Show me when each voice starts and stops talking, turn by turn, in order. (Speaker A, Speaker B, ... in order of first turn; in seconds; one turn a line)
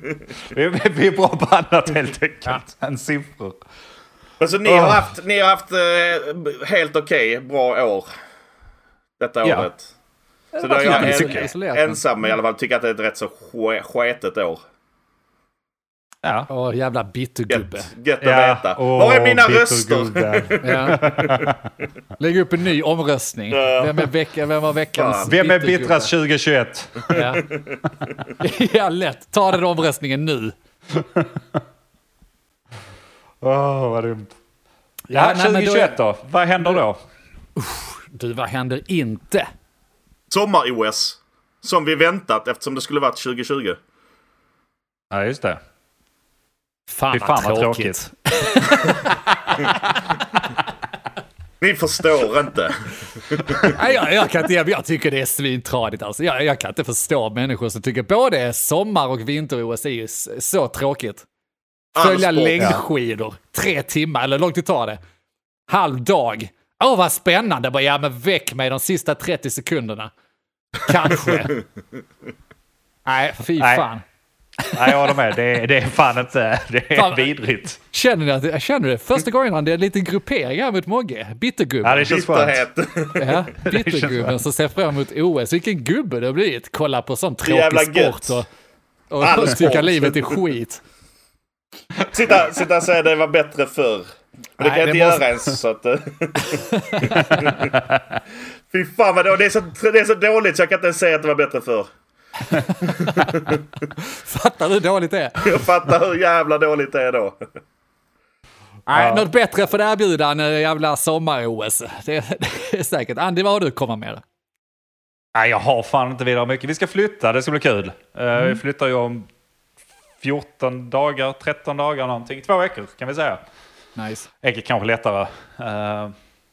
Speaker A: 0.3-3.6
Speaker B: 4.4-8.1
Speaker A: 4.6-5.1
Speaker B: 9.2-9.8
Speaker A: 9.4-9.7
Speaker C: 10.6-12.1
Speaker B: 10.6-14.6
Speaker A: 10.8-11.5
Speaker A: 16.2-16.5
Speaker C: 16.5-17.9
Speaker B: 17.5-21.5
Speaker A: 18.2-21.6
Speaker C: 20.6-21.0
Speaker C: 22.2-26.1
Speaker B: 23.5-24.1
Speaker B: 24.9-25.3
Speaker A: 25.3-27.2
Speaker C: 27.1-27.4
Speaker C: 28.4-30.6
Speaker A: 30.9-31.6
Speaker A: 33.4-34.4
Speaker C: 35.1-36.0
Speaker A: 35.1-37.0
Speaker C: 37.6-39.5
Speaker B: 40.3-43.8
Speaker A: 45.1-45.6
Speaker C: 46.9-49.8
Speaker A: 47.1-48.1
Speaker B: 51.6-53.8
Speaker C: 53.6-61.2
Speaker B: 62.0-62.7
Speaker C: 62.0-65.0
Speaker C: 65.7-70.1
Speaker C: 70.8-71.5
Speaker C: 73.1-74.0
Speaker A: 73.6-73.9
Speaker A: 74.7-77.8
Speaker C: 74.9-75.1
Speaker C: 76.9-77.3
Speaker C: 77.9-82.1
Speaker A: 81.8-82.6
Speaker B: 82.0-83.4
Speaker C: 83.2-88.5
Speaker A: 83.6-84.4
Speaker B: 87.4-88.4
Speaker C: 89.1-90.8
Speaker B: 89.2-90.4
Speaker B: 92.1-94.1
Speaker B: 94.6-97.8
Speaker C: 94.6-95.2
Speaker C: 96.6-97.5
Speaker B: 98.7-101.9
Speaker C: 102.5-103.3
Speaker C: 104.0-105.5
Speaker B: 105.4-107.4
Speaker C: 108.9-114.2
Speaker A: 108.9-109.3
Speaker A: 115.3-119.3
Speaker A: 120.2-123.4
Speaker C: 124.0-124.3
Speaker A: 124.4-126.1